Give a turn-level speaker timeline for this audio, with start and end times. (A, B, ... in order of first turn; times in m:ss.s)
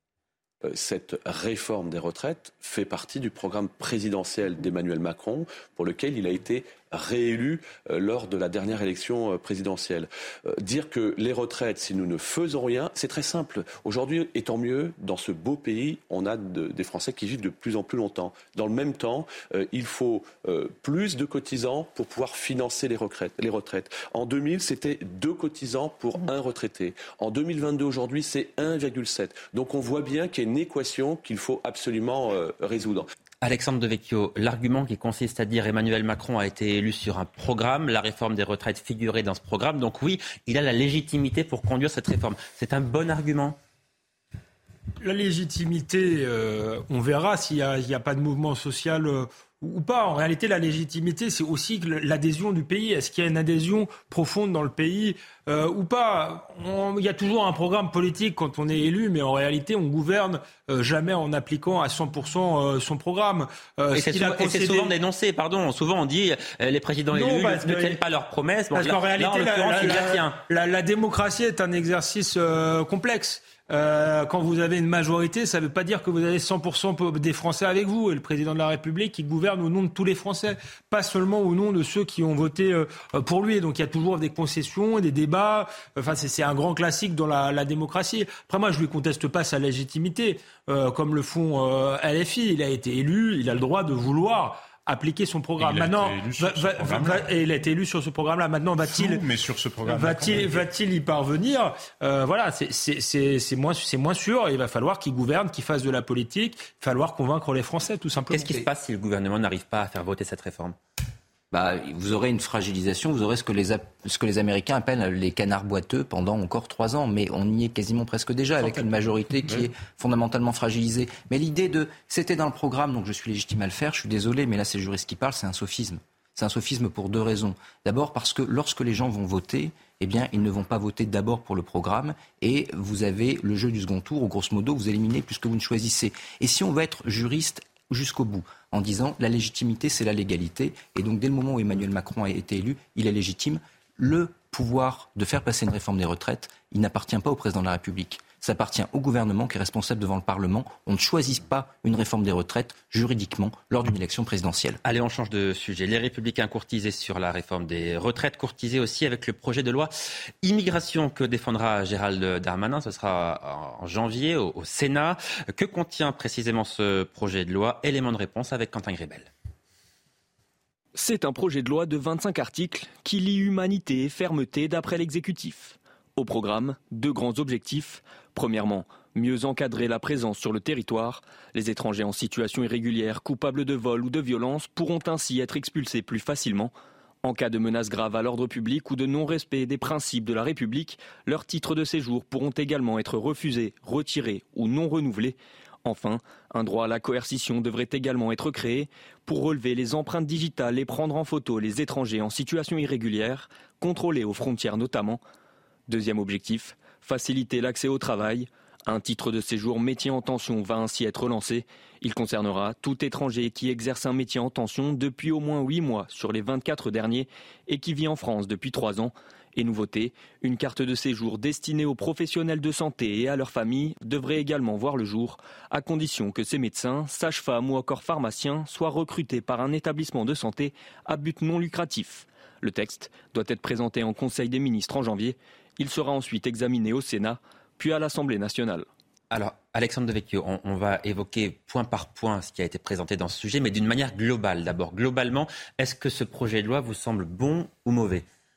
0:00.6-0:33.1 A
0:33.4-0:43.6 B
0:45.0-1:04.9 C
1:03.9-1:10.4 B
1:07.1-1:08.0 C
1:08.7-1:39.2 C
1:35.6-1:37.3 D
1:38.8-1:40.6 D
1:39.9-1:48.6 C
1:48.3-1:50.8 B
1:51.5-2:34.8 E
2:34.8-2:39.9 B
2:40.4-2:49.3 B
2:51.0-3:06.7 F
3:07.2-3:25.2 F
3:25.9-3:58.9 F
3:59.3-4:08.3 B